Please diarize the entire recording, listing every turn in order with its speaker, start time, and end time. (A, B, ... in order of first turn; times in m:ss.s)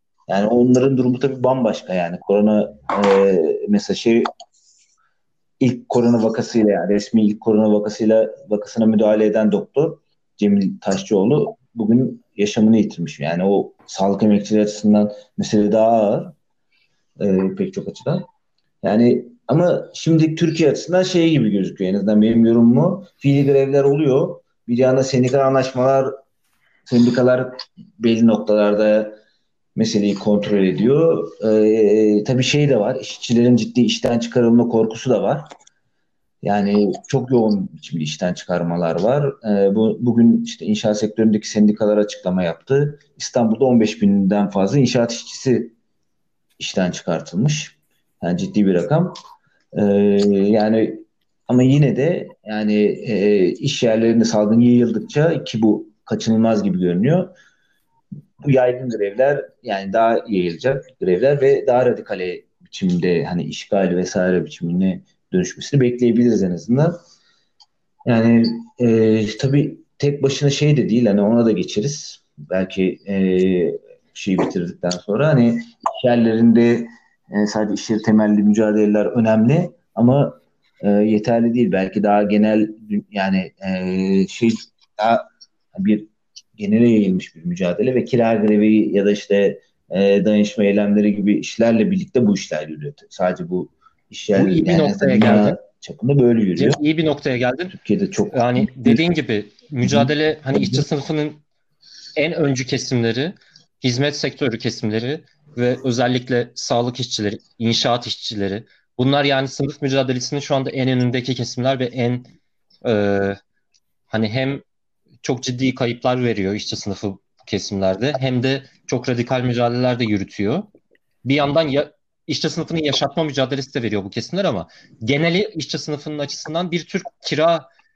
0:00.3-0:04.3 A
0:05.6-0:16.3 A
0:17.2-0:18.3 A
0:18.8-0:26.1 A
0:26.9-0:29.2 A
0:29.8-0:35.5 A
0:36.4-0:45.7 A
0:46.6-0:49.1 A
0:49.7-0:57.3 A
0:58.4-1:07.0 A
1:08.0-1:25.2 A
1:25.7-1:36.8 A
1:34.3-1:35.6 B
1:36.6-1:37.7 B
1:37.7-1:39.0 A
1:38.3-1:41.4 B
1:39.8-1:40.8 A
1:42.2-1:52.3 B
1:52.8-1:53.4 B
1:54.1-1:54.6 B
1:55.2-2:00.7 B
2:01.2-2:07.7 B